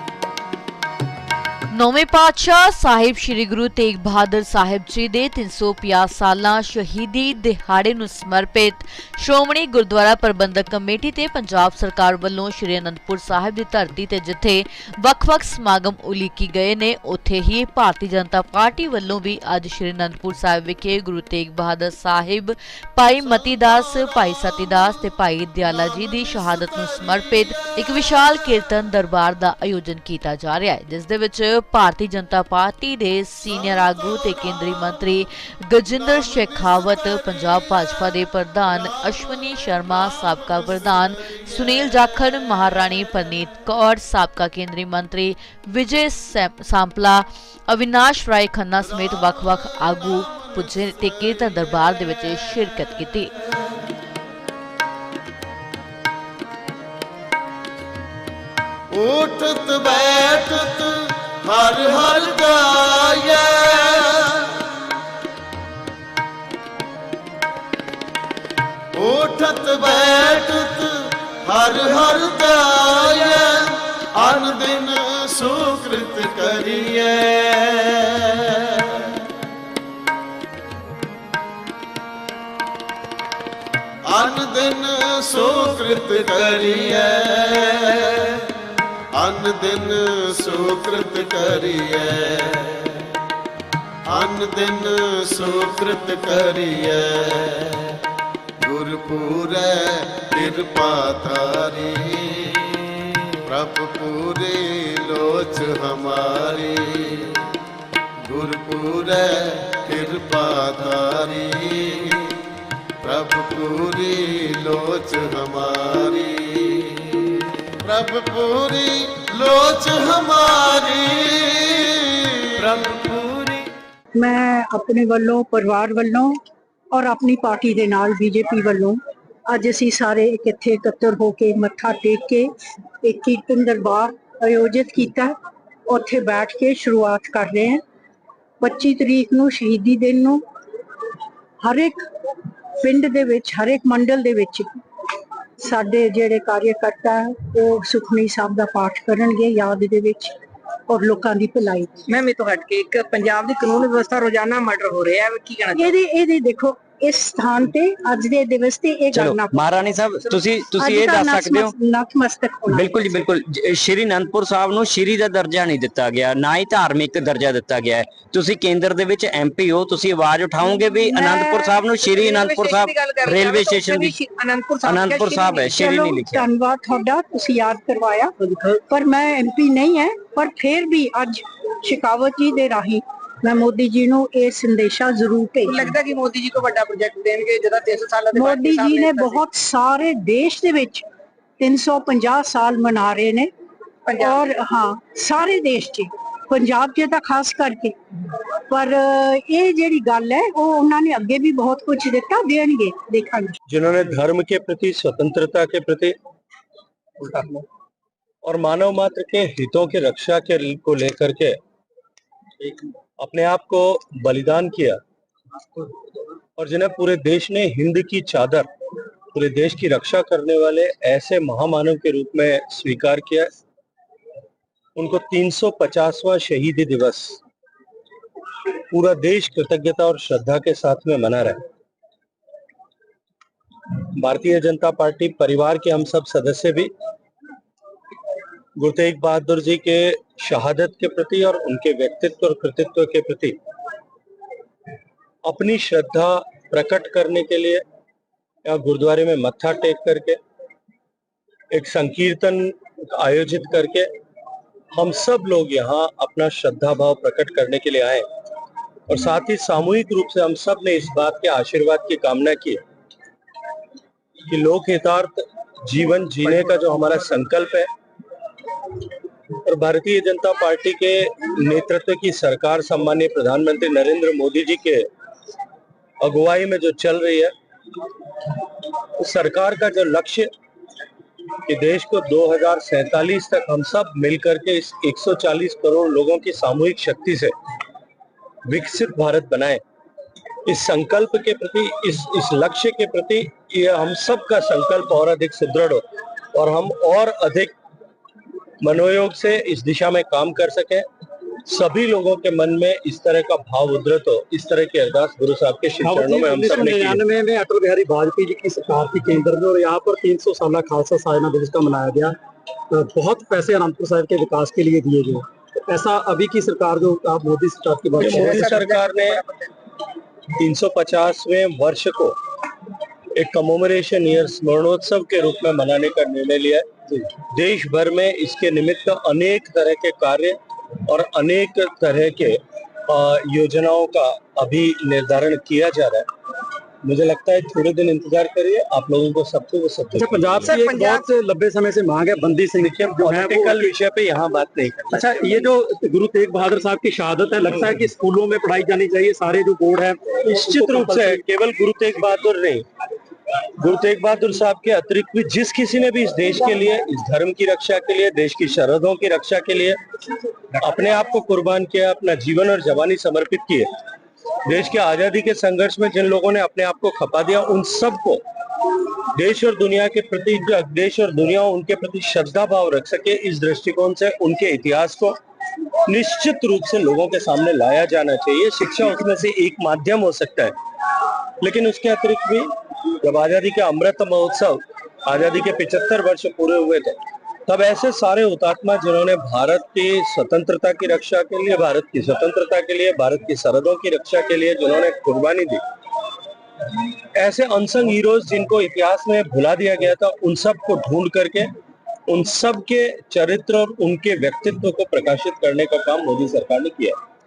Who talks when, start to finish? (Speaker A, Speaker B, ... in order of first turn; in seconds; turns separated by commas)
Speaker A: 1.7-53.3, Speaker B: 58.9-64.7, Speaker B: 68.9-79.1, Speaker B: 84.1-88.5, Speaker B: 89.2-93.1, Speaker B: 94.1-98.0, Speaker B: 98.6-102.8, Speaker B: 103.5-107.4, Speaker B: 108.2-112.4, Speaker B: 113.0-123.7, Speaker C: 124.2-126.4, Speaker C: 126.9-135.3, Speaker C: 135.9-137.8, Speaker C: 138.6-140.4, Speaker C: 141.6-142.1, Speaker C: 142.8-144.8, Speaker C: 145.6-150.3, Speaker C: 150.9-152.1, Speaker D: 152.1-155.9, Speaker C: 155.8-159.6, Speaker E: 159.1-161.8, Speaker C: 160.8-163.1, Speaker E: 162.7-174.1, Speaker C: 171.2-171.7, Speaker D: 172.0-175.8, Speaker E: 174.8-176.5, Speaker C: 175.7-185.9, Speaker D: 185.7-189.4, Speaker C: 188.3-191.1, Speaker C: 191.6-193.5, Speaker D: 194.1-194.4, Speaker C: 194.2-198.0, Speaker C: 198.7-203.6, Speaker F: 203.7-206.2, Speaker G: 207.2-207.6, Speaker F: 208.4-211.6, Speaker F: 213.2-215.0, Speaker F: 216.6-218.7, Speaker F: 219.3-223.5, Speaker F: 225.0-227.4, Speaker F: 228.9-231.6, Speaker F: 234.2-236.9, Speaker F: 238.8-243.6, Speaker F: 245.5-247.8, Speaker F: 248.7-250.4, Speaker F: 251.7-254.1, Speaker F: 254.9-258.3, Speaker F: 259.1-262.8, Speaker F: 264.5-267.9, Speaker F: 269.6-275.1, Speaker F: 276.2-277.5, Speaker F: 279.2-280.5, Speaker F: 281.7-287.5, Speaker F: 288.7-289.8, Speaker F: 290.7-297.8, Speaker F: 298.8-301.1, Speaker F: 301.7-307.2, Speaker G: 306.0-312.4, Speaker G: 312.9-318.8, Speaker F: 318.2-319.4, Speaker D: 318.2-319.7, Speaker F: 320.6-322.4, Speaker F: 323.4-326.9, Speaker F: 327.4-336.3, Speaker F: 337.0-340.7, Speaker G: 340.1-343.9, Speaker D: 340.7-341.3, Speaker F: 342.8-345.3, Speaker G: 345.1-351.4, Speaker F: 350.4-352.9, Speaker F: 353.8-360.0, Speaker F: 360.8-363.9, Speaker F: 364.7-368.4, Speaker F: 369.3-375.4, Speaker F: 376.1-380.8, Speaker F: 381.6-395.8, Speaker F: 397.4-401.7, Speaker F: 402.3-407.2